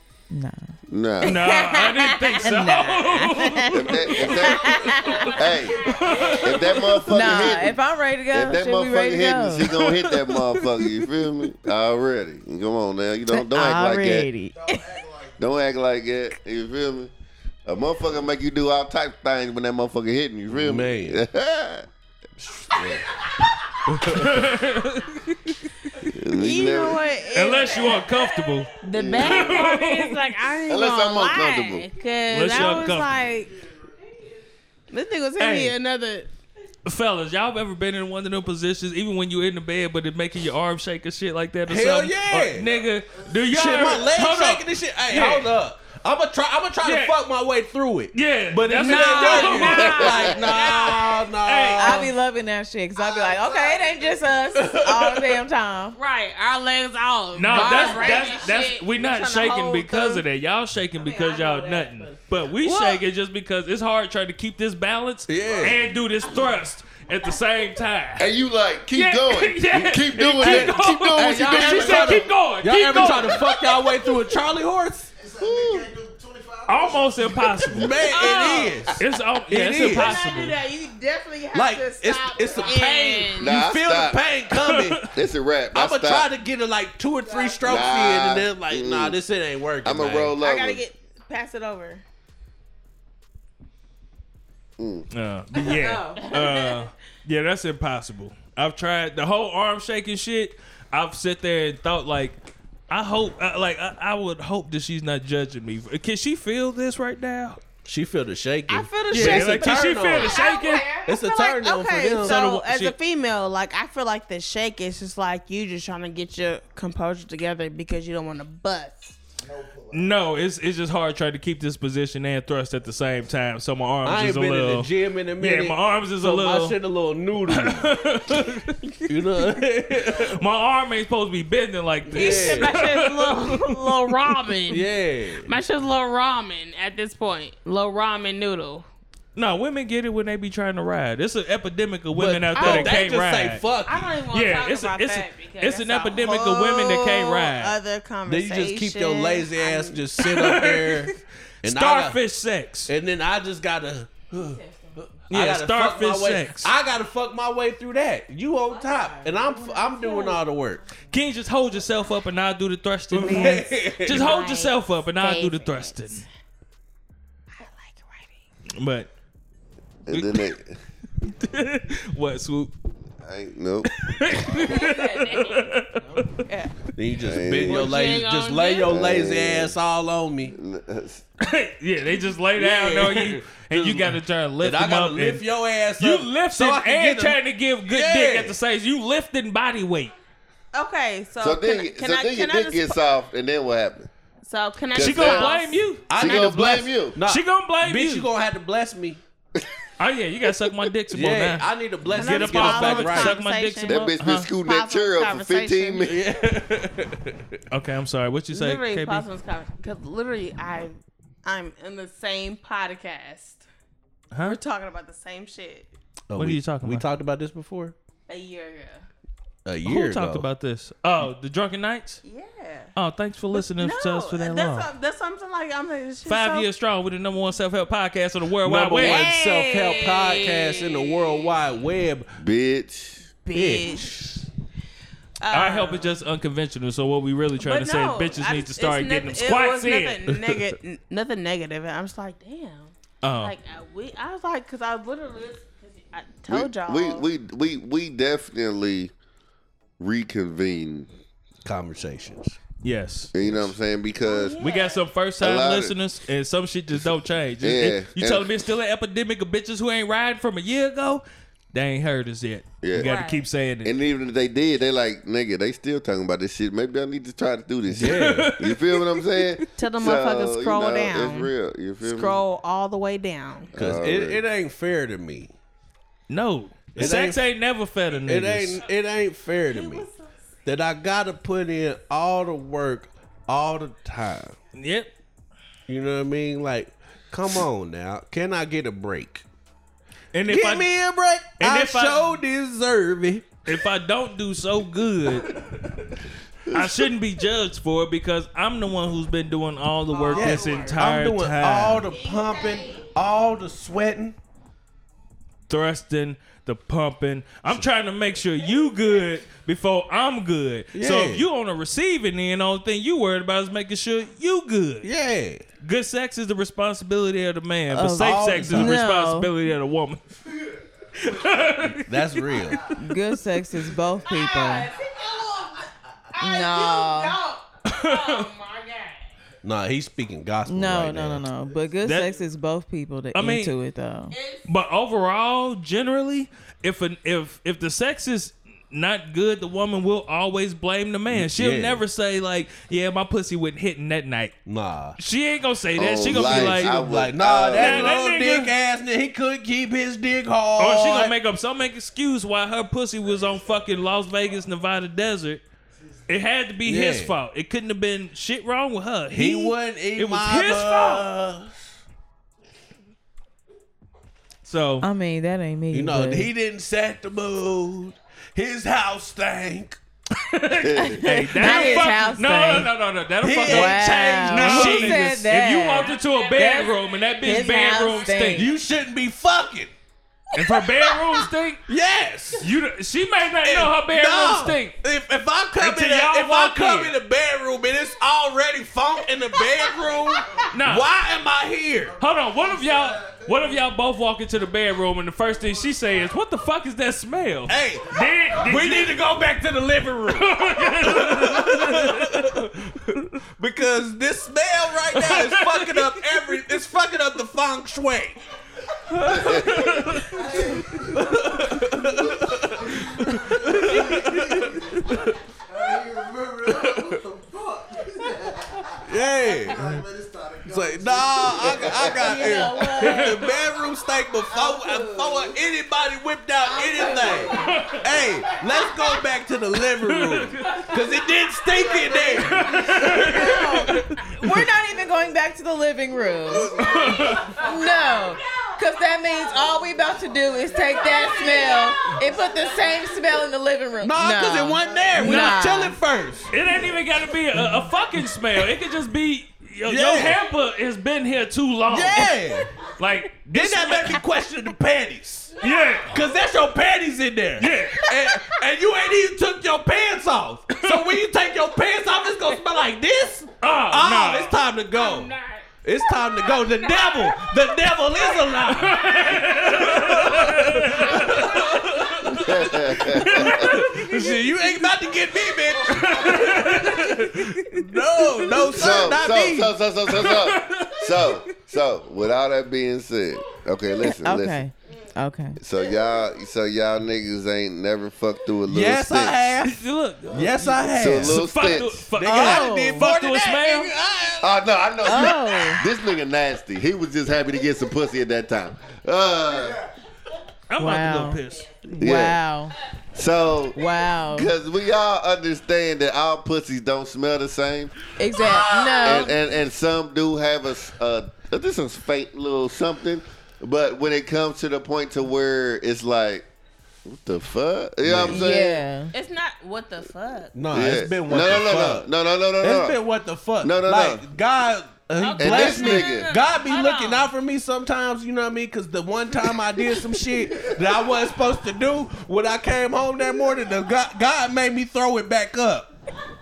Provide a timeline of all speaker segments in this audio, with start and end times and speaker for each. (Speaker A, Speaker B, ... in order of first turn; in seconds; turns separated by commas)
Speaker A: 0.3-5.4, Speaker B: 0.9-1.5, Speaker C: 1.2-4.3, Speaker B: 3.7-4.8, Speaker D: 4.3-6.9, Speaker E: 4.6-5.5, Speaker C: 5.0-7.0, Speaker B: 5.3-5.8, Speaker B: 6.4-7.8, Speaker A: 7.0-9.8, Speaker B: 8.3-14.3, Speaker C: 9.7-10.7, Speaker A: 13.3-14.9, Speaker E: 14.5-15.4, Speaker B: 15.4-17.1, Speaker B: 17.7-21.9, Speaker F: 20.5-21.2, Speaker F: 22.7-23.0, Speaker F: 23.9-24.6, Speaker C: 23.9-25.6, Speaker B: 26.1-27.0, Speaker D: 26.3-33.5, Speaker C: 27.3-30.2, Speaker B: 28.9-29.5, Speaker B: 30.7-31.9, Speaker C: 32.3-33.1, Speaker E: 32.6-34.1, Speaker D: 34.9-36.3, Speaker F: 35.4-35.8, Speaker C: 36.9-45.5, Speaker F: 41.7-42.7, Speaker E: 42.7-44.1, Speaker F: 43.5-52.1, Speaker C: 46.8-47.2, Speaker C: 48.1-52.1, Speaker D: 48.7-51.3, Speaker B: 50.0-50.3, Speaker A: 51.8-56.0, Speaker D: 53.0-54.2, Speaker F: 54.6-55.4, Speaker D: 55.9-60.2, Speaker C: 57.4-68.3, Speaker A: 57.5-58.3, Speaker A: 61.0-62.3, Speaker D: 62.6-63.0, Speaker F: 65.3-65.8, Speaker E: 65.5-65.7, Speaker B: 68.2-72.3, Speaker C: 68.9-74.3, Speaker F: 70.4-75.1, Speaker E: 75.2-77.9, Speaker B: 75.4-75.9, Speaker C: 76.7-80.6, Speaker F: 77.6-80.2, Speaker D: 78.1-78.9, Speaker D: 79.8-83.6, Speaker F: 81.5-85.1, Speaker B: 83.4-84.3, Speaker C: 84.5-85.1, Speaker B: 85.1-86.3, Speaker F: 85.7-90.4, Speaker D: 87.2-87.6, Speaker B: 87.6-89.2, Speaker B: 89.8-90.8, Speaker D: 90.4-92.0, Speaker B: 94.8-95.1, Speaker C: 95.1-102.4, Speaker D: 95.6-96.9, Speaker C: 102.9-107.6, Speaker F: 107.8-110.5, Speaker D: 108.7-119.2, Speaker C: 109.1-111.0, Speaker F: 111.0-112.4, Speaker C: 112.2-113.0, Speaker E: 119.4-120.2, Speaker C: 119.9-126.8, Speaker F: 124.0-128.0, Speaker C: 127.5-128.8, Speaker F: 129.1-130.4, Speaker E: 129.9-130.4, Speaker C: 130.3-134.4, Speaker F: 132.1-132.7, Speaker D: 132.1-134.9, Speaker F: 134.7-135.5, Speaker D: 135.4-138.9, Speaker C: 139.3-143.6, Speaker F: 142.1-144.2, Speaker D: 142.5-143.2, Speaker D: 143.7-150.2, Speaker C: 144.3-147.8, Speaker F: 148.3-152.2, Speaker C: 150.2-151.1, Speaker C: 151.6-152.9, Speaker F: 152.9-160.8, Speaker C: 155.3-156.7, Speaker D: 158.7-160.4, Speaker C: 161.1-166.2, Speaker F: 163.1-164.3, Speaker D: 163.2-166.3, Speaker D: 167.5-168.4, Speaker C: 168.8-169.1, Speaker B: 170.1-170.8, Speaker C: 170.1-170.5, Speaker C: 171.2-172.7, Speaker B: 173.2-174.4, Speaker C: 173.9-176.4, Speaker D: 174.5-176.7, Speaker F: 176.9-180.6, Speaker B: 177.2-177.9, Speaker D: 177.7-178.9, Speaker B: 178.8-179.8, Speaker B: 180.5-181.2, Speaker C: 181.4-190.1, Speaker F: 182.6-188.6, Speaker D: 190.7-193.0, Speaker B: 191.4-194.1, Speaker D: 194.4-196.7, Speaker B: 194.9-195.6, Speaker C: 194.9-196.1, Speaker F: 196.1-199.2, Speaker B: 196.1-197.2, Speaker C: 197.2-198.3, Speaker C: 200.0-204.5, Speaker F: 201.1-203.4, Speaker D: 202.1-206.1, Speaker B: 203.9-206.3, Speaker F: 206.1-207.6, Speaker C: 207.7-209.3, Speaker D: 208.5-213.7, Speaker C: 214.3-214.6, Speaker D: 214.4-215.9, Speaker F: 216.3-217.9, Speaker C: 216.4-217.1, Speaker D: 218.3-219.1, Speaker F: 219.7-220.4, Speaker C: 219.8-222.2, Speaker D: 222.2-222.9, Speaker C: 223.0-224.9, Speaker D: 223.5-226.7, Speaker C: 226.3-229.3, Speaker F: 228.6-232.3, Speaker D: 229.0-231.6, Speaker B: 232.4-233.3, Speaker D: 233.4-234.5, Speaker F: 233.5-234.4, Speaker D: 235.4-236.2, Speaker C: 235.5-240.7, Speaker D: 237.6-247.3, Speaker C: 243.2-243.6, Speaker B: 246.5-249.1, Speaker B: 250.0-251.1, Speaker F: 251.6-252.6, Speaker C: 252.8-253.3, Speaker B: 253.3-254.6, Speaker F: 253.4-253.7, Speaker D: 254.2-255.1, Speaker C: 254.6-263.9, Speaker B: 255.4-255.9, Speaker B: 256.9-258.5, Speaker B: 262.8-263.1, Speaker D: 263.0-263.5, Speaker B: 263.8-272.4, Speaker C: 267.9-269.7, Speaker F: 268.0-268.5, Speaker D: 269.8-271.5, Speaker D: 272.0-273.7, Speaker B: 273.7-274.4, Speaker F: 273.8-275.5, Speaker C: 276.3-278.8, Speaker F: 276.9-277.4, Speaker F: 278.2-280.1, Speaker D: 279.7-280.5, Speaker F: 280.6-284.6, Speaker C: 284.8-285.1, Speaker F: 285.9-289.4, Speaker C: 290.3-290.9, Speaker F: 290.5-293.6, Speaker C: 291.6-292.4, Speaker C: 293.6-295.6, Speaker B: 296.7-297.1, Speaker C: 296.7-302.1, Speaker D: 300.2-301.0, Speaker F: 300.3-304.4, Speaker D: 302.1-303.1, Speaker C: 305.7-315.1, Speaker F: 310.9-311.4, Speaker F: 315.0-315.6, Speaker C: 315.8-320.2, Speaker A: 317.9-319.5, Speaker F: 318.1-319.0, Speaker C: 321.2-323.0, Speaker F: 322.0-322.9, Speaker A: 323.0-324.9, Speaker D: 324.3-329.3, Speaker E: 325.0-325.3, Speaker A: 326.4-327.4, Speaker C: 327.9-328.5, Speaker F: 329.6-331.5, Speaker A: 330.7-334.4, Speaker C: 332.0-332.4, Speaker C: 333.3-333.7, Speaker D: 334.3-334.7, Speaker C: 334.6-344.6, Speaker F: 341.3-342.0, Speaker F: 344.7-345.2, Speaker C: 345.2-347.0, Speaker B: 346.0-348.1, Speaker F: 346.3-351.3, Speaker C: 347.7-348.7, Speaker C: 350.8-355.6, Speaker C: 356.3-361.3, Speaker F: 356.9-357.3, Speaker F: 359.3-361.8, Speaker C: 364.6-365.1, Speaker A: 365.0-366.5, Speaker F: 365.9-370.0, Speaker C: 370.3-378.8, Speaker B: 370.8-371.3, Speaker A: 371.0-372.9, Speaker F: 371.6-372.0, Speaker F: 373.4-375.2, Speaker A: 373.6-378.8, Speaker D: 376.0-377.5, Speaker F: 378.5-379.9, Speaker C: 380.5-381.9, Speaker F: 381.9-382.7, Speaker C: 382.6-385.0, Speaker F: 383.6-392.2, Speaker C: 385.8-387.1, Speaker C: 390.7-391.1, Speaker E: 392.1-393.9, Speaker C: 392.2-399.2, Speaker F: 397.7-402.8, Speaker E: 398.2-398.9, Speaker C: 400.3-402.6, Speaker F: 403.6-408.4, Speaker C: 405.1-406.7, Speaker C: 409.1-410.5, Speaker E: 409.3-415.1, Speaker B: 409.3-409.6, Speaker F: 409.9-410.6, Speaker F: 411.1-415.4, Speaker E: 415.6-419.1, Speaker F: 416.7-417.0, Speaker F: 419.1-419.9, Speaker E: 419.7-422.4, Speaker F: 420.7-433.7, Speaker B: 421.6-422.2, Speaker D: 422.2-423.5, Speaker C: 423.0-423.5, Speaker D: 424.5-425.6, Speaker D: 426.6-429.3, Speaker C: 427.6-428.0, Speaker C: 429.9-431.0, Speaker D: 430.6-434.5, Speaker C: 432.3-434.7, Speaker E: 433.0-433.7, Speaker A: 433.3-446.0, Speaker F: 436.5-437.5, Speaker C: 436.8-437.6, Speaker D: 436.9-439.9, Speaker D: 440.7-443.4, Speaker F: 444.0-446.5, Speaker C: 445.1-445.9, Speaker C: 446.5-452.4, Speaker A: 447.5-447.9, Speaker F: 449.9-450.4, Speaker F: 451.9-452.7, Speaker C: 453.0-454.2, Speaker F: 453.4-455.6, Speaker D: 455.5-456.5, Speaker C: 455.6-456.2, Speaker F: 456.1-465.3, Speaker C: 457.6-458.4, Speaker C: 463.6-464.6, Speaker D: 464.9-472.2, Speaker F: 465.8-479.8, Speaker C: 468.7-474.6, Speaker B: 472.3-473.8, Speaker C: 475.7-478.7, Speaker E: 475.9-476.7, Speaker B: 478.7-484.6, Speaker C: 480.1-481.5, Speaker A: 484.2-485.6, Speaker B: 485.6-489.6, Speaker F: 488.7-491.4, Speaker C: 489.6-493.9, Speaker B: 490.9-492.1, Speaker F: 492.2-495.4, Speaker A: 492.2-493.1, Speaker B: 494.4-499.8, Speaker A: 495.0-495.9, Speaker E: 499.5-499.9, Speaker C: 500.7-501.8, Speaker A: 500.8-502.7, Speaker B: 502.0-502.4, Speaker B: 503.1-507.9, Speaker A: 503.7-504.5, Speaker A: 508.2-509.4, Speaker D: 508.4-509.3, Speaker B: 509.0-516.5, Speaker B: 517.1-518.8, Speaker F: 518.0-518.5, Speaker A: 518.3-519.1, Speaker D: 519.1-520.8, Speaker F: 520.5-522.1, Speaker B: 520.7-523.0, Speaker F: 522.6-535.9, Speaker B: 523.6-524.3, Speaker D: 525.2-527.3, Speaker B: 525.4-526.3